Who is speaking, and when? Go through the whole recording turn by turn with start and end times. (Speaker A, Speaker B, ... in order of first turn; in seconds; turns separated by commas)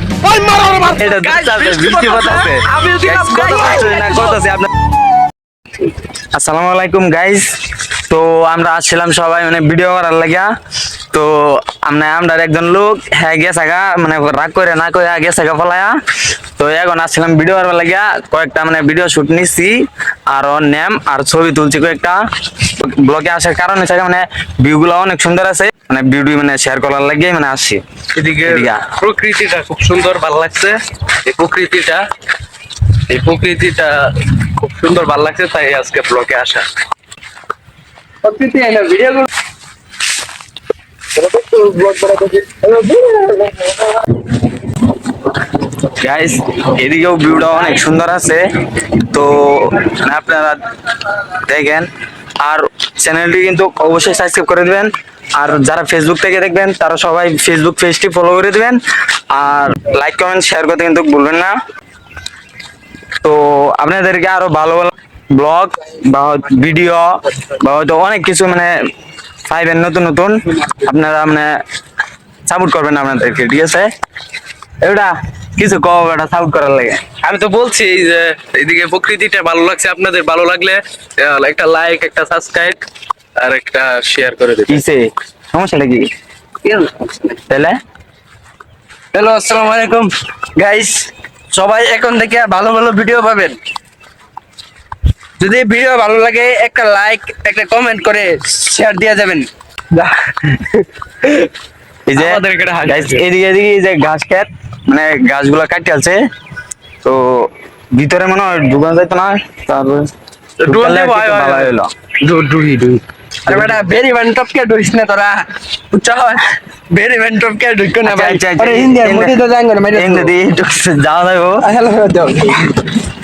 Speaker A: 0.2-4.4, Speaker B: 0.9-4.7, Speaker B: 6.3-10.5, Speaker B: 11.1-15.9, Speaker B: 16.6-19.8, Speaker B: 20.3-27.8, Speaker A: 28.1-32.0, Speaker B: 28.4-28.9, Speaker A: 33.1-36.6, Speaker C: 38.2-39.3, Speaker C: 41.2-43.9, Speaker B: 45.9-51.9, Speaker B: 52.4-58.8, Speaker B: 59.3-61.5, Speaker B: 63.2-68.7, Speaker B: 69.5-71.6, Speaker B: 72.5-73.9, Speaker B: 74.8-77.0, Speaker A: 77.2-82.8, Speaker A: 83.4-84.8, Speaker B: 84.7-86.1, Speaker C: 86.6-87.4, Speaker B: 87.5-87.8, Speaker C: 89.1-93.6, Speaker C: 95.4-100.6, Speaker B: 102.1-106.2, Speaker A: 102.2-103.2, Speaker B: 107.0-110.1, Speaker A: 110.6-113.6, Speaker B: 110.7-111.9, Speaker C: 113.5-120.3, Speaker B: 118.0-119.4, Speaker B: 119.9-121.6, Speaker C: 121.6-122.7